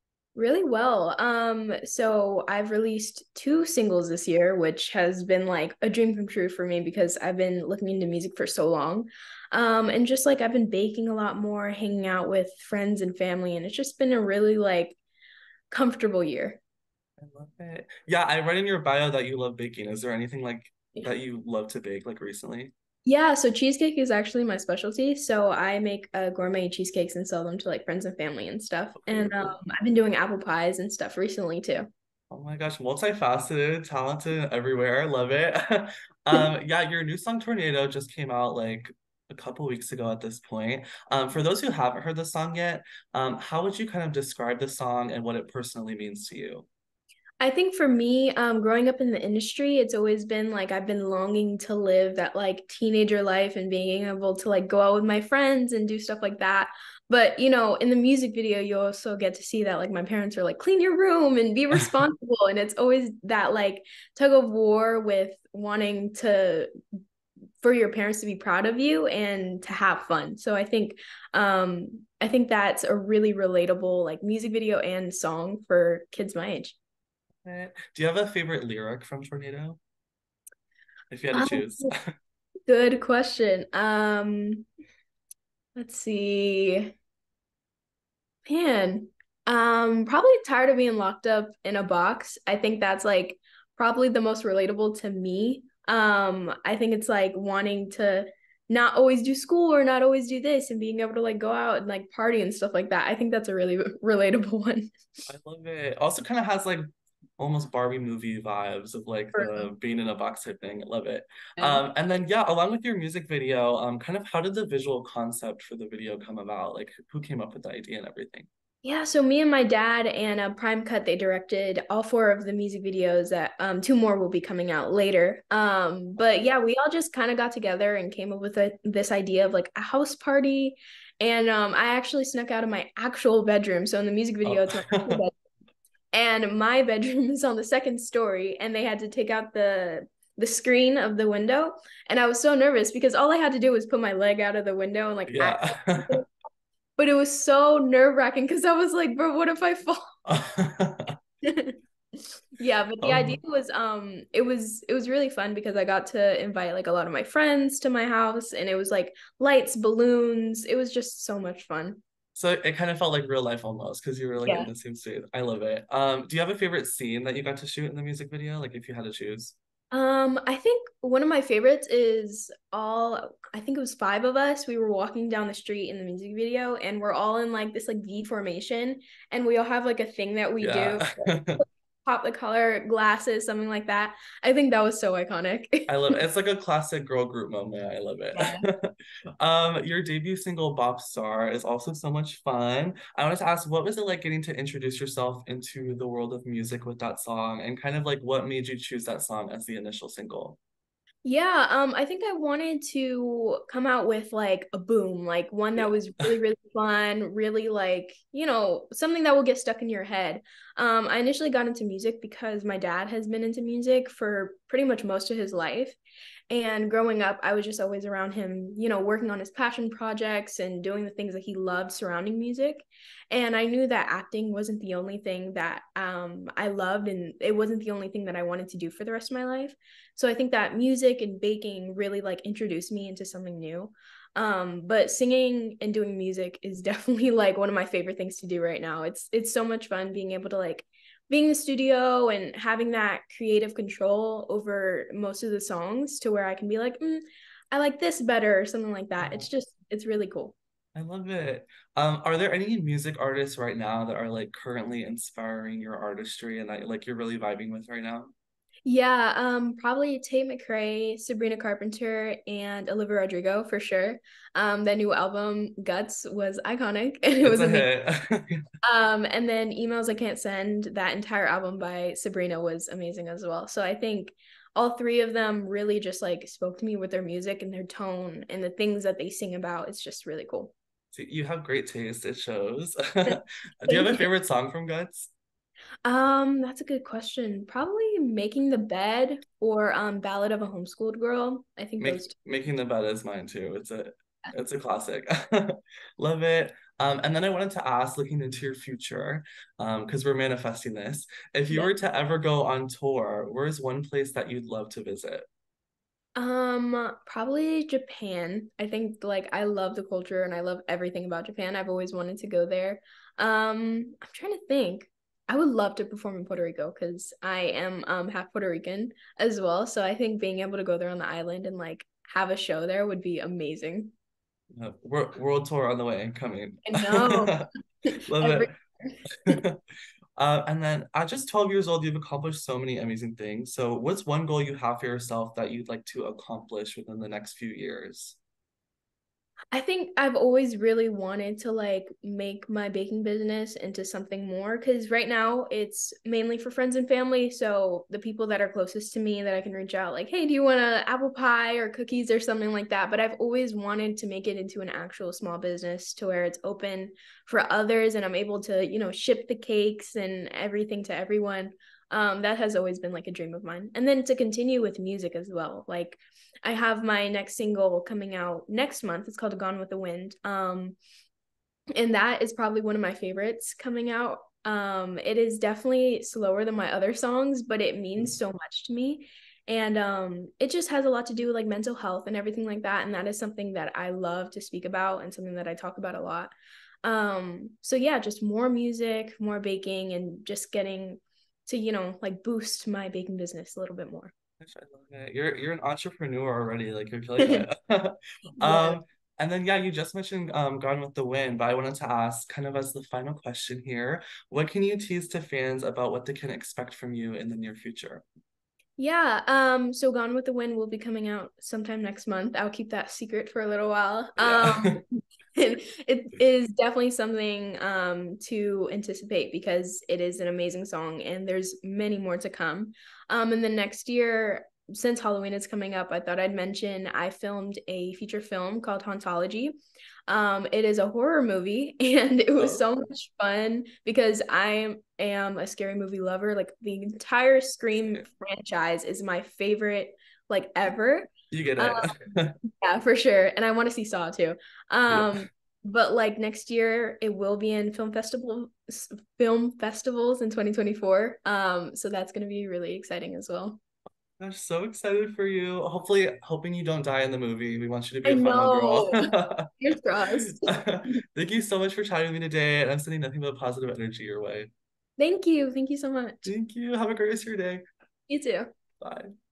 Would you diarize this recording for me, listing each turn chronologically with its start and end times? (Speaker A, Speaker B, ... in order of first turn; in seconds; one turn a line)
Speaker A: 0.3-15.0
Speaker A: 15.7-16.6
Speaker B: 17.2-22.7
Speaker A: 23.0-31.9
Speaker B: 28.9-29.5
Speaker B: 32.3-46.7
Speaker A: 47.4-66.7
Speaker A: 67.6-76.8
Speaker B: 77.4-79.8
Speaker B: 81.1-82.1
Speaker A: 81.3-81.9
Speaker A: 82.7-84.7
Speaker A: 85.8-86.9
Speaker A: 88.5-104.9
Speaker B: 105.3-106.8
Speaker B: 107.4-118.5
Speaker A: 109.3-109.7
Speaker A: 111.6-111.9
Speaker A: 118.8-135.3
Speaker B: 134.4-135.2
Speaker A: 136.1-146.2
Speaker B: 145.3-146.2
Speaker A: 147.0-150.0
Speaker B: 150.3-151.1
Speaker A: 151.4-151.8
Speaker A: 152.6-162.0
Speaker B: 153.0-153.4
Speaker B: 162.3-169.6
Speaker A: 164.4-164.7
Speaker A: 169.9-181.1
Speaker B: 180.6-181.6
Speaker A: 181.6-186.2
Speaker B: 185.9-188.9
Speaker A: 188.3-188.7
Speaker B: 189.4-200.6
Speaker A: 201.2-216.0
Speaker A: 216.5-250.5
Speaker B: 249.2-249.5
Speaker B: 250.9-258.3
Speaker A: 258.9-267.9
Speaker B: 267.4-268.6
Speaker A: 268.8-280.7
Speaker B: 281.1-285.3
Speaker A: 283.3-284.2
Speaker A: 286.0-292.3
Speaker B: 292.0-305.5
Speaker A: 306.4-324.1
Speaker B: 324.7-327.7
Speaker A: 326.8-329.6
Speaker B: 328.3-328.7
Speaker B: 329.5-329.8
Speaker B: 330.4-338.4
Speaker A: 339.7-371.0
Speaker A: 371.9-386.5
Speaker A: 387.0-394.3
Speaker B: 394.6-408.2
Speaker A: 397.4-397.6
Speaker A: 398.6-399.0
Speaker A: 409.0-415.0
Speaker B: 414.4-415.0
Speaker A: 415.6-442.2
Speaker B: 432.6-432.8
Speaker B: 441.5-442.6
Speaker A: 442.7-453.8
Speaker B: 445.1-445.4
Speaker B: 454.4-459.7
Speaker A: 458.2-459.3
Speaker A: 459.8-461.2
Speaker B: 460.5-464.7
Speaker A: 465.2-466.5
Speaker B: 466.4-467.8
Speaker A: 468.3-468.7
Speaker B: 469.0-469.3